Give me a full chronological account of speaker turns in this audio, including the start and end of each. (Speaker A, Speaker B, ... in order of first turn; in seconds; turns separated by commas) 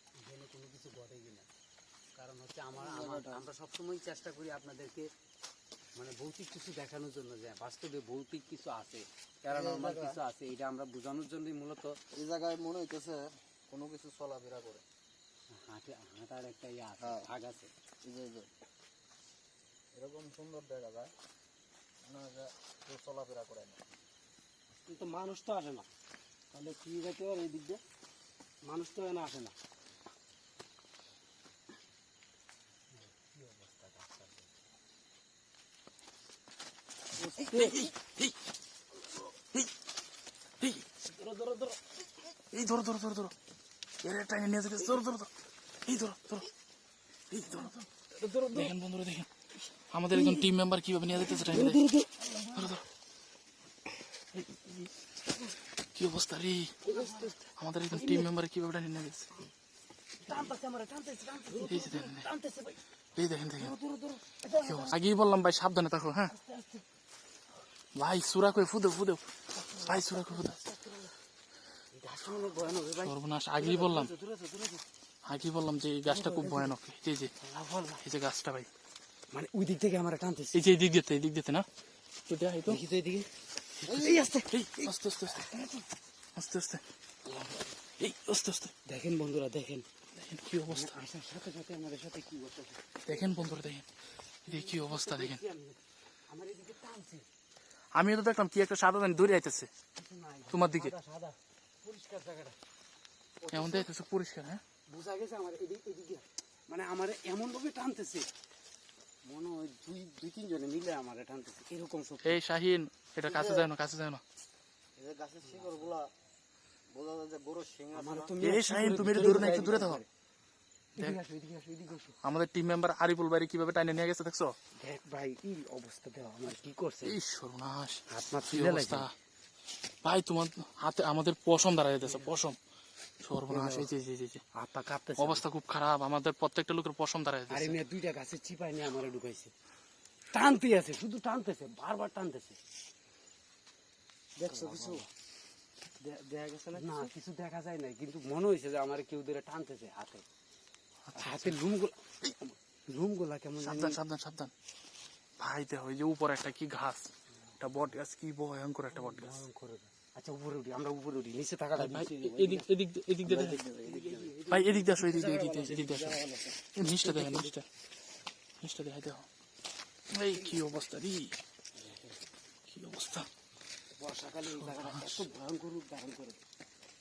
Speaker A: 0.2-1.5, Speaker A: 2.2-5.1, Speaker B: 2.8-3.4, Speaker A: 6.0-12.0, Speaker B: 9.5-10.2, Speaker B: 12.1-14.8, Speaker A: 15.6-17.7, Speaker B: 17.0-17.3, Speaker B: 18.0-18.5, Speaker B: 20.0-21.1, Speaker B: 22.1-23.8, Speaker C: 24.9-25.9, Speaker C: 26.5-27.8, Speaker C: 28.6-29.6, Speaker A: 33.1-34.5, Speaker C: 37.4-37.9, Speaker D: 37.4-38.4, Speaker D: 40.6-41.0, Speaker A: 41.3-41.5, Speaker D: 42.5-43.3, Speaker D: 44.0-45.3, Speaker D: 45.9-46.5, Speaker D: 47.3-49.3, Speaker D: 49.9-51.9, Speaker C: 51.4-52.6, Speaker D: 52.5-52.9, Speaker D: 54.5-54.9, Speaker D: 56.0-56.8, Speaker C: 56.9-57.5, Speaker A: 56.9-57.3, Speaker D: 57.6-59.3, Speaker C: 58.0-58.2, Speaker A: 60.2-62.8, Speaker C: 61.5-61.8, Speaker D: 61.6-62.2, Speaker D: 63.2-63.7, Speaker A: 63.6-64.9, Speaker D: 64.6-66.3, Speaker A: 66.5-66.7, Speaker D: 68.0-70.6, Speaker A: 69.8-71.0, Speaker A: 71.9-74.8, Speaker D: 73.0-74.1, Speaker D: 75.2-77.3, Speaker A: 76.1-76.7, Speaker A: 77.4-78.0, Speaker D: 78.0-78.7, Speaker A: 79.3-80.6, Speaker D: 80.5-81.7, Speaker D: 82.3-82.8, Speaker A: 82.7-83.3, Speaker D: 83.8-85.5, Speaker A: 83.9-84.5, Speaker C: 83.9-84.4, Speaker A: 85.4-85.8, Speaker D: 86.4-86.8, Speaker A: 87.3-87.7, Speaker D: 88.0-88.7, Speaker A: 88.9-89.8, Speaker D: 90.2-91.0, Speaker A: 90.7-93.5, Speaker D: 93.1-93.9, Speaker D: 94.5-95.4, Speaker A: 94.5-97.2, Speaker D: 98.0-99.7, Speaker A: 100.0-102.6, Speaker D: 100.5-100.9, Speaker A: 103.4-103.9, Speaker D: 103.5-104.6, Speaker A: 104.9-108.3, Speaker A: 109.3-112.4, Speaker D: 112.2-114.2, Speaker B: 113.3-113.7, Speaker B: 115.0-116.1, Speaker A: 115.4-116.0, Speaker B: 116.9-118.4, Speaker A: 117.9-120.0, Speaker D: 118.4-120.0, Speaker C: 118.5-119.9, Speaker A: 121.0-122.2, Speaker C: 121.1-121.4, Speaker D: 122.2-124.6, Speaker A: 124.8-127.2, Speaker C: 126.4-126.7, Speaker D: 127.0-129.1, Speaker A: 128.1-129.1, Speaker D: 130.0-132.6, Speaker A: 132.0-132.4, Speaker D: 133.2-134.4, Speaker A: 133.5-133.9, Speaker A: 134.5-135.4, Speaker D: 135.2-137.8, Speaker A: 137.5-139.5, Speaker A: 140.3-142.6, Speaker A: 144.4-145.1, Speaker C: 144.4-145.1, Speaker C: 146.0-147.1, Speaker A: 146.8-150.2, Speaker D: 151.1-151.6, Speaker A: 151.2-154.0, Speaker D: 153.6-154.5, Speaker D: 155.4-157.1, Speaker D: 157.6-159.4, Speaker A: 159.3-162.6, Speaker D: 161.8-163.7, Speaker C: 162.3-162.7, Speaker B: 163.2-164.3, Speaker C: 163.8-167.5, Speaker D: 164.5-167.7, Speaker D: 168.6-169.3, Speaker D: 170.1-171.4, Speaker D: 172.7-173.3, Speaker A: 174.0-176.4, Speaker D: 174.5-175.3